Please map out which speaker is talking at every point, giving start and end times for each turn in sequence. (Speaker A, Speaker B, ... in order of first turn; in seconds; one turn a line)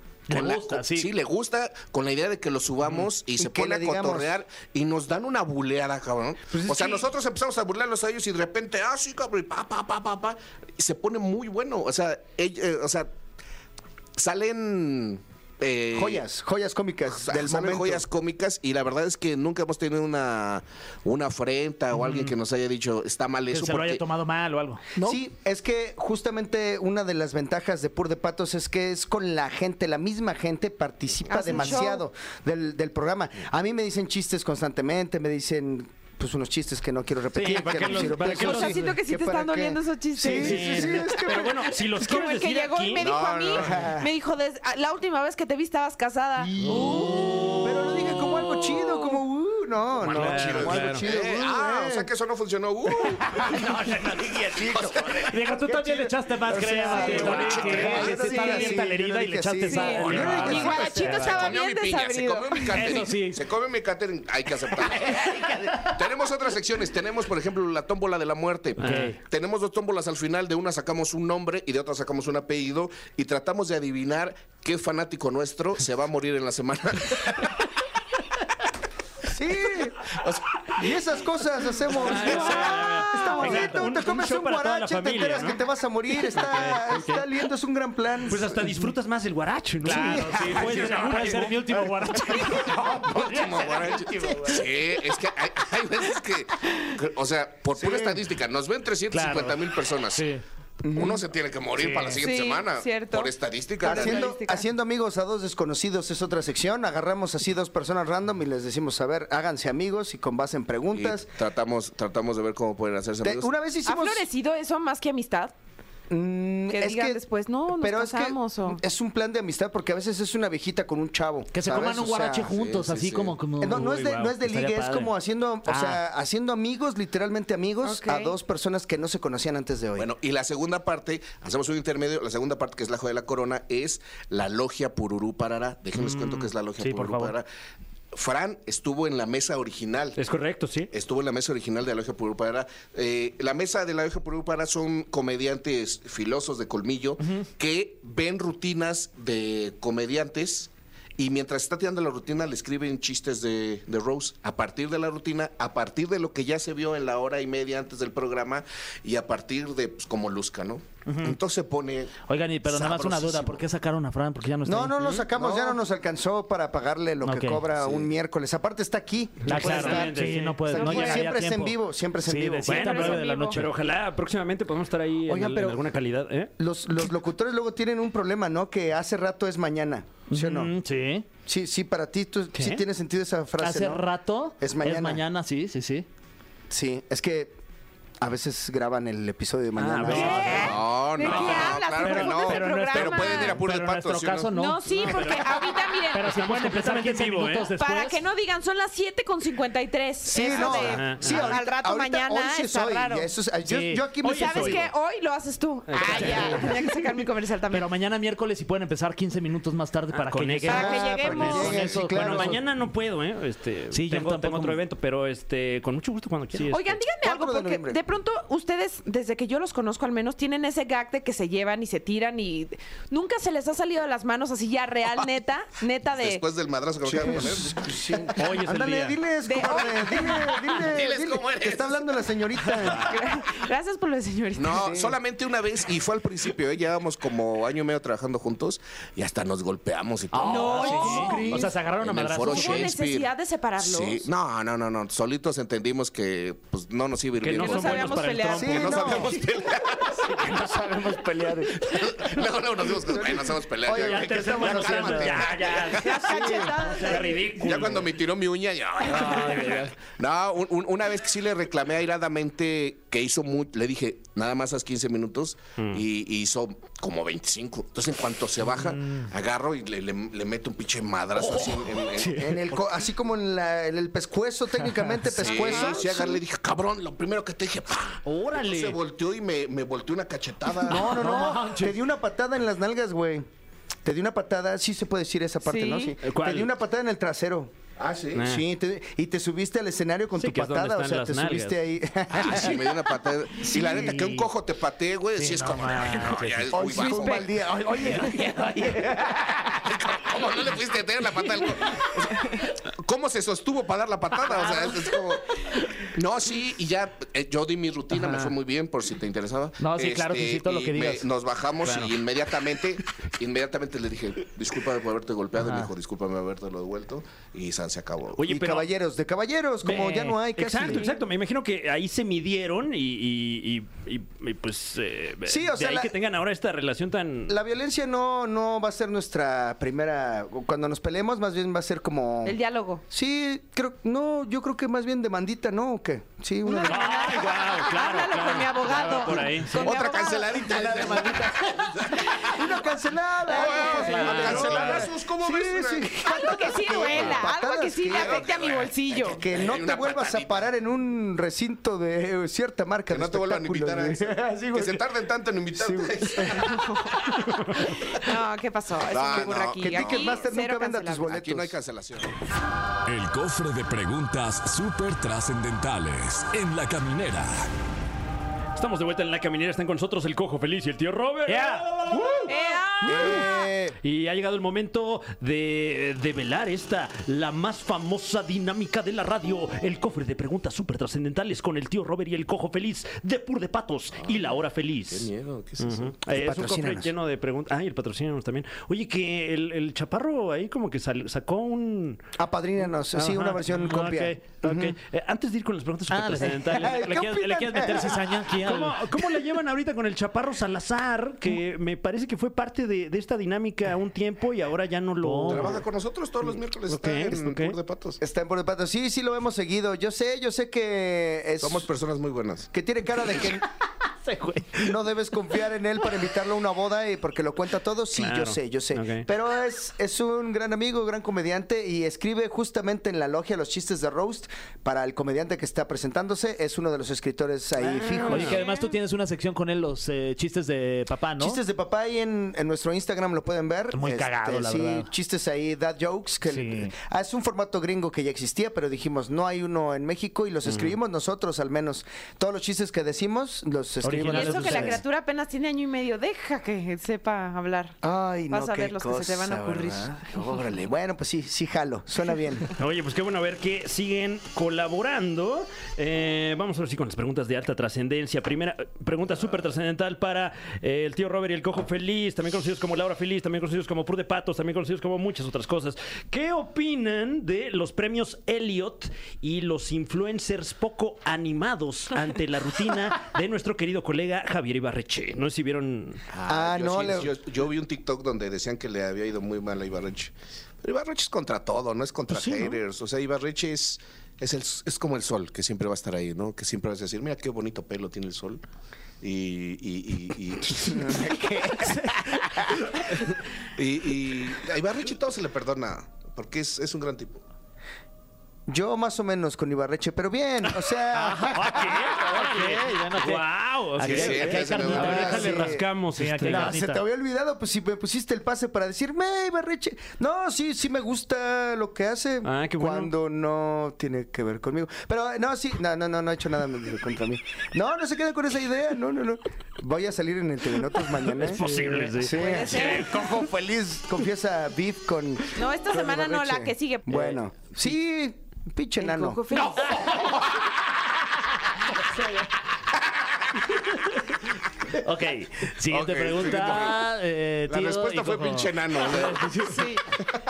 Speaker A: 0.3-1.1
Speaker B: 0.3-13.1
Speaker C: 3.4-4.4
Speaker C: 6.5-7.1
Speaker B: 14.2-16.2
Speaker C: 15.9-18.1
Speaker B: 17.2-24.1
Speaker D: 22.0-22.3
Speaker A: 23.5-24.8
Speaker C: 25.0-41.7
Speaker B: 31.3-31.6
Speaker E: 31.3-32.0
Speaker D: 37.3-39.0
Speaker E: 37.9-49.2
Speaker D: 40.2-43.1
Speaker B: 43.0-44.0
Speaker C: 43.6-44.1
Speaker C: 46.6-52.1
Speaker D: 46.7-47.0
Speaker B: 50.0-55.3
Speaker D: 50.0-51.1
Speaker C: 53.1-53.6
Speaker C: 54.5-61.5
Speaker A: 55.3-60.7
Speaker B: 56.9-58.6
Speaker D: 57.0-57.5
Speaker E: 59.6-63.0
Speaker D: 60.0-61.1
Speaker B: 60.1-77.6
Speaker A: 62.7-63.5
Speaker A: 65.1-65.9
Speaker A: 68.8-69.2
Speaker D: 68.8-69.2
Speaker C: 79.2-80.1
Speaker B: 80.1-80.7
Speaker C: 80.7-88.8
Speaker D: 81.9-85.6
Speaker A: 82.0-83.8
Speaker D: 86.3-87.2
Speaker D: 88.3-92.3
Speaker A: 89.8-94.7
Speaker C: 89.9-90.9
Speaker B: 92.7-100.3
Speaker C: 97.8-98.2
Speaker A: 99.1-100.4
Speaker C: 100.8-101.2
Speaker B: 100.9-104.3
Speaker A: 101.8-102.2
Speaker E: 102.2-103.3
Speaker E: 103.8-104.7
Speaker C: 103.8-111.3
Speaker B: 110.9-113.5
Speaker C: 113.2-114.3
Speaker E: 113.8-115.5
Speaker C: 116.1-117.2
Speaker E: 116.7-118.8
Speaker C: 117.7-122.5
Speaker A: 121.5-125.1
Speaker B: 122.4-123.4
Speaker C: 123.6-130.1
Speaker D: 123.7-124.3
Speaker A: 125.7-126.0
Speaker E: 127.8-128.3
Speaker B: 130.0-137.4
Speaker A: 136.0-137.3
Speaker B: 138.1-140.2
Speaker D: 140.2-140.9
Speaker B: 140.9-163.6
Speaker A: 161.1-161.4
Speaker A: 162.3-165.7
Speaker C: 164.7-172.8
Speaker A: 167.2-167.7
Speaker B: 167.8-168.1
Speaker D: 169.4-171.2
Speaker A: 169.5-173.7
Speaker E: 170.8-171.2
Speaker D: 172.7-176.5
Speaker E: 172.7-173.6
Speaker C: 175.3-175.8
Speaker C: 176.6-180.7
Speaker A: 180.3-181.3
Speaker C: 181.5-184.1
Speaker D: 182.5-182.8
Speaker A: 183.6-186.1
Speaker C: 184.6-185.2
Speaker C: 186.7-187.6
Speaker C: 188.2-190.7
Speaker D: 189.8-191.5
Speaker E: 190.0-193.6
Speaker A: 190.1-190.7
Speaker B: 190.5-194.5
Speaker A: 191.2-195.4
Speaker E: 194.5-196.3
Speaker D: 195.0-195.6
Speaker A: 196.1-198.2
Speaker D: 196.2-197.7
Speaker E: 197.7-203.3
Speaker C: 200.2-204.9
Speaker D: 200.5-201.6
Speaker A: 203.6-204.0
Speaker E: 204.2-207.9
Speaker D: 204.2-204.9
Speaker D: 205.9-206.7
Speaker C: 206.1-206.6
Speaker A: 206.1-206.7
Speaker A: 207.7-212.6
Speaker D: 210.1-217.0
Speaker E: 210.7-211.9
Speaker C: 210.7-212.6
Speaker A: 213.9-214.8
Speaker E: 216.7-226.4
Speaker C: 217.2-218.0
Speaker B: 226.1-228.3
Speaker C: 227.1-233.1
Speaker D: 228.4-229.2
Speaker E: 229.4-230.5
Speaker B: 230.7-232.2
Speaker E: 232.9-235.0
Speaker B: 234.5-250.7
Speaker C: 234.7-235.2
Speaker A: 240.3-242.9
Speaker E: 240.5-241.6
Speaker C: 240.8-241.7
Speaker E: 242.4-244.3
Speaker D: 247.4-249.3
Speaker E: 247.5-249.3
Speaker C: 248.5-249.3
Speaker C: 250.2-256.8
Speaker B: 251.8-256.2
Speaker D: 253.9-258.1
Speaker E: 255.9-257.5
Speaker B: 257.1-272.5
Speaker D: 259.1-259.9
Speaker D: 271.4-272.5
Speaker C: 272.3-276.2
Speaker A: 274.9-275.5
Speaker B: 275.3-281.4
Speaker E: 275.5-276.4
Speaker D: 278.2-279.0
Speaker C: 280.9-283.5
Speaker A: 280.9-282.0
Speaker C: 284.1-287.7
Speaker E: 285.6-286.1
Speaker D: 286.2-286.7
Speaker B: 288.0-288.4
Speaker D: 288.3-288.6
Speaker C: 288.4-293.1
Speaker D: 290.4-291.8
Speaker B: 292.4-297.5
Speaker C: 293.6-294.2
Speaker A: 293.7-294.5
Speaker A: 295.4-297.0
Speaker C: 296.7-299.4
Speaker E: 296.9-297.5
Speaker A: 298.2-298.7
Speaker B: 299.7-318.4
Speaker A: 308.1-308.5
Speaker A: 309.8-311.3
Speaker A: 311.9-312.1
Speaker A: 315.6-315.9
Speaker D: 318.4-318.9
Speaker C: 318.5-321.1
Speaker A: 319.9-320.4
Speaker D: 320.6-327.6
Speaker C: 325.5-326.1
Speaker C: 327.5-332.6
Speaker E: 332.4-333.0
Speaker C: 333.1-337.6
Speaker E: 336.7-342.4
Speaker D: 336.8-340.0
Speaker B: 339.8-342.7
Speaker C: 340.7-341.5
Speaker C: 342.4-348.5
Speaker B: 343.5-347.5
Speaker E: 343.6-344.3
Speaker A: 344.1-344.8
Speaker D: 344.2-345.1
Speaker E: 346.2-349.4
Speaker B: 348.1-350.6
Speaker C: 349.2-355.0
Speaker B: 353.1-357.3
Speaker C: 355.7-356.7
Speaker E: 356.7-357.2
Speaker E: 358.1-361.3
Speaker B: 359.1-360.5
Speaker C: 359.4-361.8
Speaker B: 361.2-362.4
Speaker F: 363.1-367.7
Speaker D: 368.8-372.5
Speaker A: 371.5-372.4
Speaker E: 372.5-373.6
Speaker C: 373.0-374.0
Speaker D: 373.1-373.5
Speaker D: 374.0-392.2
Speaker B: 384.2-384.6
Speaker B: 385.1-386.1
Speaker C: 386.3-387.1
Speaker C: 392.4-395.0
Speaker D: 393.2-397.2
Speaker A: 396.1-399.0
Speaker C: 396.7-398.3
Speaker D: 398.6-405.9
Speaker A: 405.2-405.8
Speaker B: 405.5-408.2
Speaker D: 406.9-407.8
Speaker C: 408.2-411.9
Speaker B: 411.6-412.7
Speaker C: 412.7-413.7
Speaker A: 414.2-414.9
Speaker C: 414.8-428.6
Speaker D: 418.2-419.3
Speaker D: 427.9-428.6
Speaker A: 428.2-431.6
Speaker E: 428.4-428.9
Speaker C: 431.4-445.0
Speaker A: 433.9-435.1
Speaker A: 436.5-436.9
Speaker D: 440.7-440.9
Speaker A: 444.0-445.0
Speaker E: 444.2-448.0
Speaker C: 448.0-452.7
Speaker E: 448.5-450.3
Speaker D: 452.8-476.2
Speaker B: 476.3-488.6
Speaker C: 476.5-477.3
Speaker D: 482.3-482.8
Speaker B: 489.2-491.4
Speaker C: 490.9-492.9
Speaker B: 493.1-497.4
Speaker C: 498.7-502.7
Speaker A: 501.1-507.0
Speaker D: 501.5-506.8
Speaker B: 504.0-505.5
Speaker C: 504.6-505.9
Speaker C: 506.4-529.4
Speaker D: 512.4-513.1
Speaker D: 521.4-523.3
Speaker A: 521.6-522.2
Speaker E: 522.4-523.2
Speaker E: 525.5-527.3
Speaker E: 529.0-530.1
Speaker A: 535.0-539.9
Speaker B: 535.9-537.1
Speaker B: 537.7-539.6
Speaker E: 539.6-540.0